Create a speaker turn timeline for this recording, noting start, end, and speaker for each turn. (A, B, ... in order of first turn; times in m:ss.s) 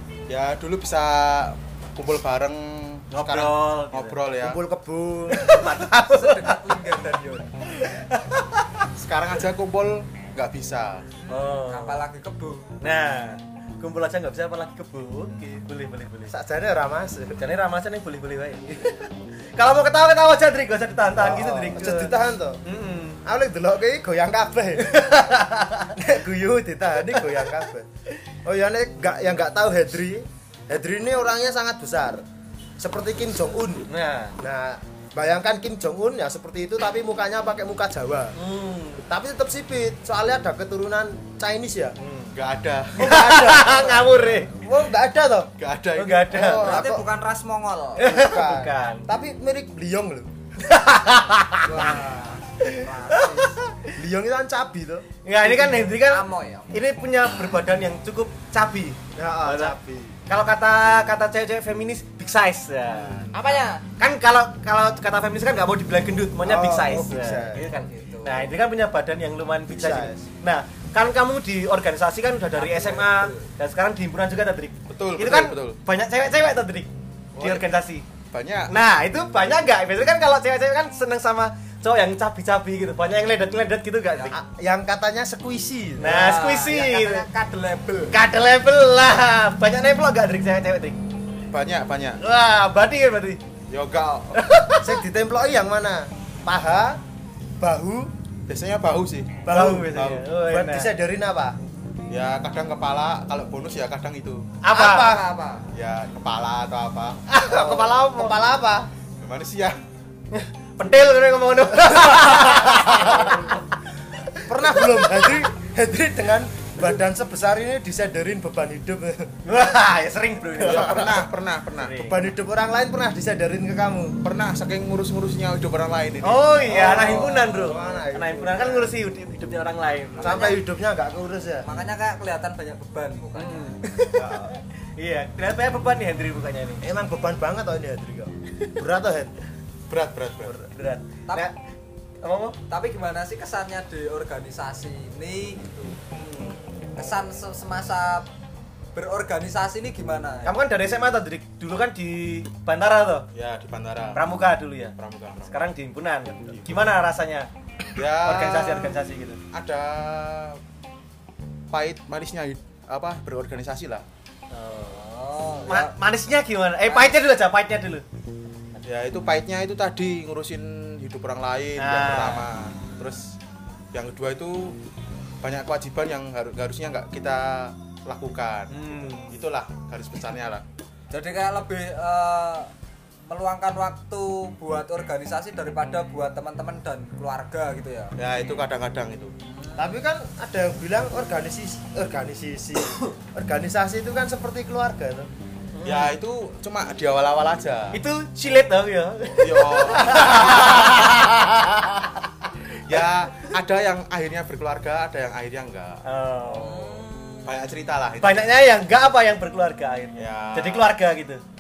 0:00.3-0:04.6 A
0:03.1-0:04.2 B
0:04.4-0:05.6 C
0:05.3-0:06.6 B
0:06.0-0:07.5 D
0:07.8-0:08.6 B
0:09.0-0:11.1 A
0:11.2-0:12.7 D
0:11.3-0:12.1 B
0:12.8-0:16.3 B
0:16.3-0:17.4 C
0:17.4-0:23.2 B
0:21.1-0:22.6 C
0:23.2-0:25.0 C
0:24.8-0:26.0 B
0:26.0-0:27.9 C
0:28.4-0:32.2 C
0:32.8-0:38.4 C
0:33.9-0:34.4 B
0:38.4-0:39.0 B
0:39.0-0:42.0 C
0:42.0-0:42.3 B
0:42.3-0:43.2 A
0:43.0-0:44.5 B
0:43.0-0:45.5 C
0:45.6-0:46.6 A
0:46.0-0:46.8 B
0:46.3-0:47.1 C
0:46.6-0:48.0 D
0:48.0-0:50.3 C
0:48.0-0:49.1 B
0:50.6-0:52.0 B
0:51.6-0:53.6 D
0:52.7-0:54.0 B
0:54.0-0:55.1 C
0:55.2-0:59.8 B
0:55.6-0:56.9 D
0:59.2-1:00.2 C
1:00.3-1:18.0 B
1:02.9-1:03.3 A
1:03.3-1:03.8 D
1:06.4-1:07.6 C
1:07.5-1:08.5 D
1:09.7-1:10.2 C
1:12.6-1:13.5 D
1:14.9-1:15.8 A
1:17.4-1:17.7 A
1:18.3-1:18.7 A
1:18.7-1:24.3 B
1:24.3-1:26.3 C
1:26.0-1:27.3 B
1:26.0-1:28.2 D
1:28.1-1:31.0 B
1:31.5-1:32.2 A
1:32.2-1:33.4 B
1:33.7-1:34.4 A
1:34.3-1:35.0 B
1:34.8-1:37.0 C
1:37.6-1:38.1 C
1:38.5-1:40.2 A
1:39.4-1:41.6 C
1:39.5-1:40.9 B
1:42.1-1:44.4 A
1:44.6-1:45.2 B
1:44.7-1:45.2 C
1:44.9-1:45.6 D
1:45.7-1:47.2 A
1:47.3-1:48.4 B
1:47.5-1:48.9 C
1:49.2-1:49.8 A
1:50.3-1:53.6 B
1:52.7-1:53.5 C
1:54.2-1:55.3 B
1:54.5-1:59.3 C
1:59.5-2:02.3 B
2:00.6-2:02.0 A
2:02.0-2:04.2 C
2:04.2-2:07.1 A
2:06.2-2:10.6 B
2:06.7-2:09.0 C
2:10.2-2:11.7 C
2:10.2-2:10.6 D
2:11.6-2:13.8 D
2:13.4-2:16.8 B
2:14.1-2:14.5 C
2:16.8-2:19.3 C
2:19.9-2:20.6 A
2:20.4-2:21.5 B
2:22.2-2:22.6 B
2:22.7-2:26.0 D
2:26.2-2:26.5 B
2:27.0-2:28.3 D
2:29.0-2:30.6 D
2:30.4-2:33.3 B
2:33.3-2:34.3 A
2:34.2-2:35.0 B
2:35.0-2:35.7 A
2:35.5-2:37.5 B
2:36.5-2:36.9 A
2:37.9-2:39.0 A
2:38.2-2:39.4 B
2:39.5-2:40.6 A
2:41.7-2:44.0 A
2:44.5-2:45.0 B
2:44.9-2:45.9 D
2:45.7-2:48.0 B
2:46.9-2:47.1 D
2:48.8-2:53.4 A
2:51.8-2:52.4 B
2:53.9-2:54.8 A
2:55.4-3:00.6 A
2:58.7-2:59.4 B
3:01.1-3:02.7 D
3:03.3-3:08.2 D
3:08.2-3:09.3 A
3:09.4-3:10.0 D
3:09.8-3:15.3 C
3:15.8-3:16.1 B
3:15.8-3:18.0 A
3:17.9-3:22.1 B
3:19.4-3:21.0 A
3:22.8-3:26.0 A
3:26.1-3:27.0 B
3:26.4-3:27.5 D
3:27.4-3:28.5 A
3:28.2-3:31.4 B
3:30.2-3:30.9 A